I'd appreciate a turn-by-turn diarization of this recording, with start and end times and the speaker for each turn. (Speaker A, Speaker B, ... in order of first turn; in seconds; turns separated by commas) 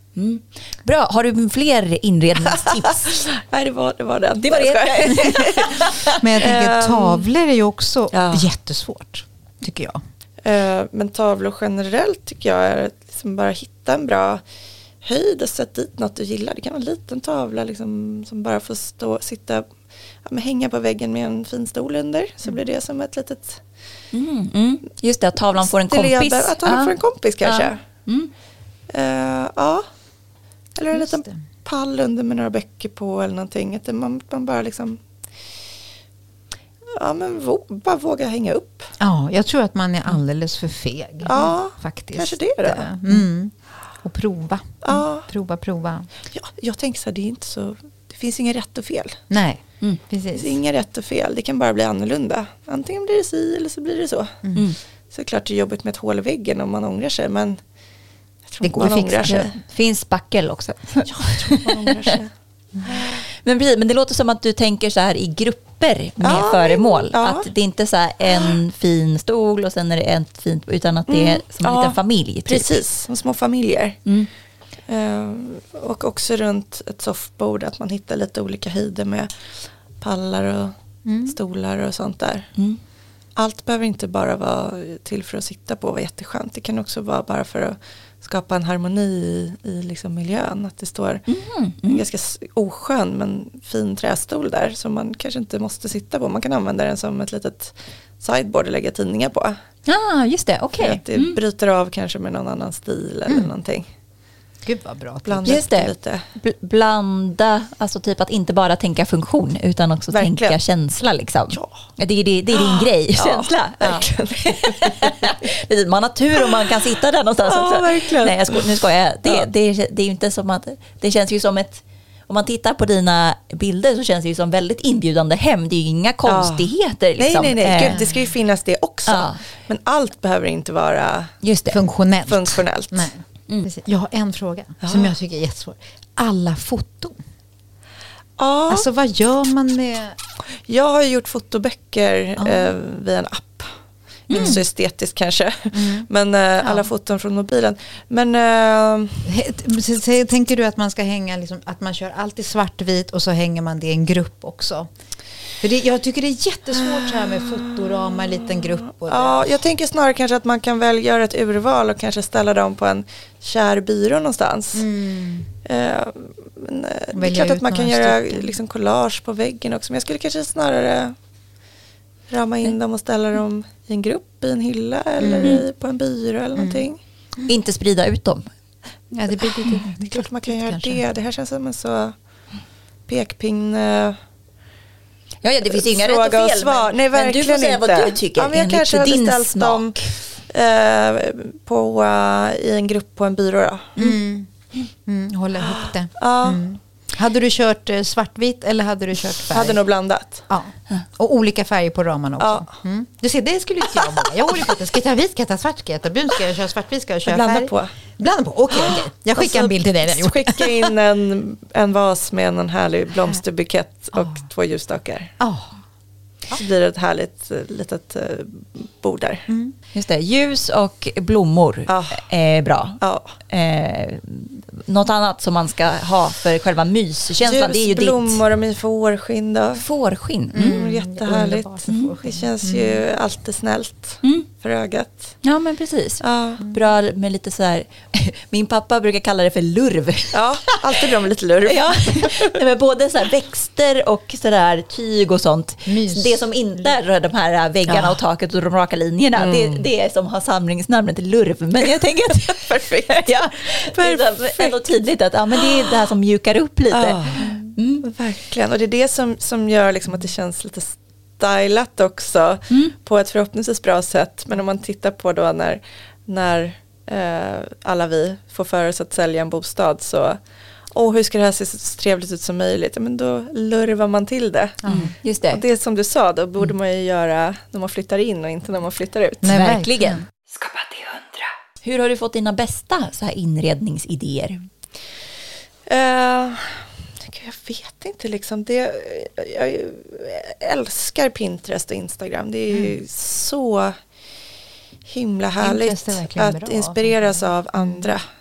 Speaker A: 0.1-3.1, Speaker B: 2.5-5.9, Speaker A: 4.4-6.2, Speaker C: 6.2-10.0, Speaker B: 6.4-7.2, Speaker B: 8.1-8.5, Speaker B: 10.4-14.4, Speaker B: 15.0-19.7, Speaker B: 20.2-23.6, Speaker A: 24.1-28.3, Speaker B: 25.9-27.8, Speaker B: 28.9-29.9, Speaker B: 30.8-35.0, Speaker C: 30.9-31.4, Speaker B: 37.0-38.9, Speaker C: 39.0-46.1, Speaker B: 41.2-42.9, Speaker B: 44.8-45.3, Speaker B: 46.3-49.2, Speaker C: 49.3-50.5, Speaker B: 50.3-54.4, Speaker B: 55.1-57.6, Speaker B: 58.5-59.5, Speaker C: 58.6-59.4, Speaker A: 58.8-61.7, Speaker B: 61.0-62.3, Speaker B: 62.9-63.2, Speaker A: 63.4-72.8, Speaker B: 66.2-67.5, Speaker B: 68.2-68.5, Speaker B: 71.1-74.0, Speaker B: 74.9-80.7, Speaker C: 81.0-81.3, Speaker B: 81.2-82.5, Speaker B: 83.3-91.3, Speaker A: 91.3-92.0, Speaker B: 91.8-99.6, Speaker A: 99.8-101.4, Speaker B: 100.8-103.9, Speaker C: 104.6-105.6, Speaker B: 105.2-106.3, Speaker A: 105.4-127.9, Speaker B: 110.1-110.5, Speaker B: 111.5-111.8, Speaker B: 112.5-115.3, Speaker B: 117.4-118.7, Speaker B: 126.2-131.3, Speaker C: 127.9-128.2, Speaker A: 129.1-129.4, Speaker A: 131.4-131.8, Speaker C: 131.7-137.2, Speaker B: 132.3-133.1, Speaker B: 134.8-135.1, Speaker B: 138.4-138.9, Speaker C: 138.7-140.2, Speaker B: 140.7-143.7, Speaker C: 142.4-142.7, Speaker A: 144.3-144.6, Speaker B: 144.3-149.3, Speaker C: 144.3-144.6, Speaker C: 145.7-146.1, Speaker C: 149.2-154.9, Speaker C: 155.6-159.5, Speaker B: 156.8-164.9, Speaker C: 164.7-165.5, Speaker B: 165.6-171.1, Speaker C: 167.1-168.5, Speaker B: 172.3-177.0, Speaker C: 175.2-175.6, Speaker C: 176.6-176.8, Speaker A: 177.4-178.4, Speaker C: 179.1-181.0, Speaker B: 179.4-182.2, Speaker B: 183.1-184.2, Speaker A: 185.4-190.1, Speaker B: 185.7-194.0, Speaker C: 194.0-194.5, Speaker C: 195.0-199.8, Speaker B: 195.7-196.6, Speaker B: 199.5-200.5, Speaker C: 200.5-210.9, Speaker B: 202.4-202.7, Speaker B: 203.9-204.7, Speaker B: 207.2-207.9, Speaker B: 208.7-215.3, Speaker C: 215.4-215.7, Speaker B: 216.5-219.5, Speaker C: 219.5-219.7, Speaker A: 219.9-228.4, Speaker B: 221.9-222.2, Speaker B: 223.0-223.3, Speaker B: 227.4-229.8, Speaker A: 229.8-230.8, Speaker C: 230.5-233.0, Speaker B: 230.6-235.4, Speaker A: 231.9-232.1, Speaker A: 235.4-240.4, Speaker B: 236.2-236.6, Speaker B: 240.3-242.5, Speaker A: 241.6-258.0, Speaker C: 245.8-246.4, Speaker C: 247.9-248.2, Speaker B: 249.3-249.8, Speaker B: 252.5-254.9, Speaker B: 255.6-255.9, Speaker B: 256.9-270.4, Speaker B: 270.9-279.5, Speaker C: 274.8-275.1, Speaker A: 274.9-275.6, Speaker C: 279.4-280.2, Speaker A: 279.5-280.2, Speaker A: 281.8-284.6, Speaker B: 285.9-294.0, Speaker B: 295.1-298.2, Speaker C: 295.6-298.0